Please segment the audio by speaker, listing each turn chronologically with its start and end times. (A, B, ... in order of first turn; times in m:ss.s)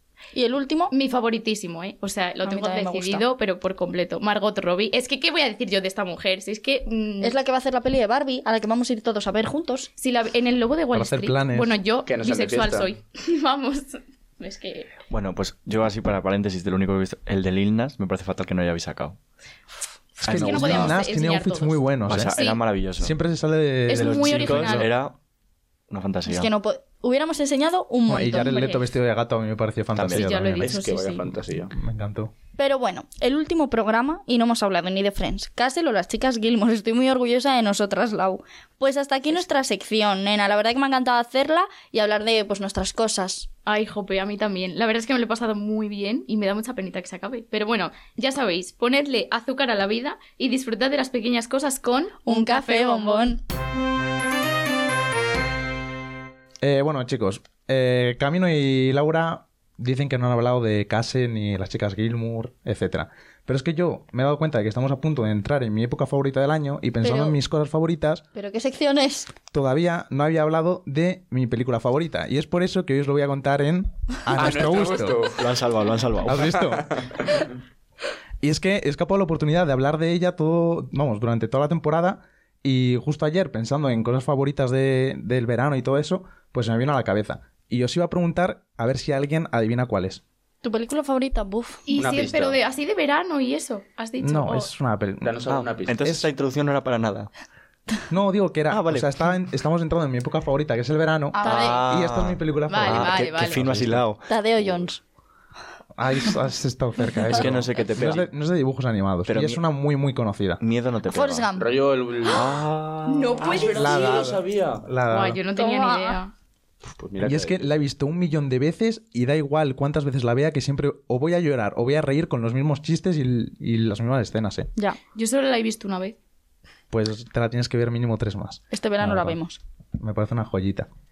0:00.4-0:00.9 A
0:00.9-0:07.4 B
0:02.4-0:03.3 A
0:07.2-0:09.9 A
0:10.0-0:14.9 B
0:10.9-0:11.8 C
0:12.1-0:12.9 D
0:15.1-0:19.2 E
0:20.2-0:21.8 B
0:20.2-0:21.0 E
0:20.2-0:22.4 C
0:22.1-0:23.2 E
0:22.3-0:22.6 B
0:23.0-0:24.9 C
0:23.9-0:24.9 B
0:23.9-0:25.2 E
0:25.9-0:26.5 E
0:26.3-0:28.7 A
0:28.1-0:30.8 C
0:28.3-0:28.9 B
0:29.9-0:30.3 E
0:30.1-0:31.3 B
0:30.6-0:31.7 D
0:31.7-0:32.3 C
0:32.6-0:43.5 A
0:43.7-0:53.4 B
0:52.3-0:53.4 A
0:56.6-1:08.2 C
1:07.0-1:07.4 A
1:08.4-1:09.4 A
1:09.4-1:15.2 C
1:14.3-1:15.5 D
1:15.4-1:16.6 E
1:16.3-1:17.0 C
1:18.4-1:30.2 C
1:30.6-1:31.8 A
1:31.9-1:34.7 B
1:32.0-1:32.6 D
1:34.2-1:35.4 C
1:35.2-1:36.0 D
1:35.5-1:37.3 E
1:36.0-1:36.3 C
1:38.1-1:44.0 C
1:38.7-1:39.1 E
1:41.3-1:41.9 A
1:41.4-1:44.3 E
1:42.7-1:43.6 B
1:44.3-1:45.0 A
1:46.0-1:50.6 C
1:47.3-1:48.3 E
1:49.3-1:49.6 E
1:50.6-1:51.5 E
1:51.0-1:51.7 A
1:51.6-1:52.5 D
1:52.2-1:54.3 B
1:52.3-1:53.4 E
1:53.4-1:54.9 D
1:53.6-1:55.4 C
1:55.1-1:56.3 B
1:55.5-1:56.2 A
1:56.9-1:57.6 D
1:57.2-2:04.7 C
2:05.1-2:06.2 B
2:06.9-2:09.4 C
2:08.7-2:09.6 A
2:10.0-2:10.9 C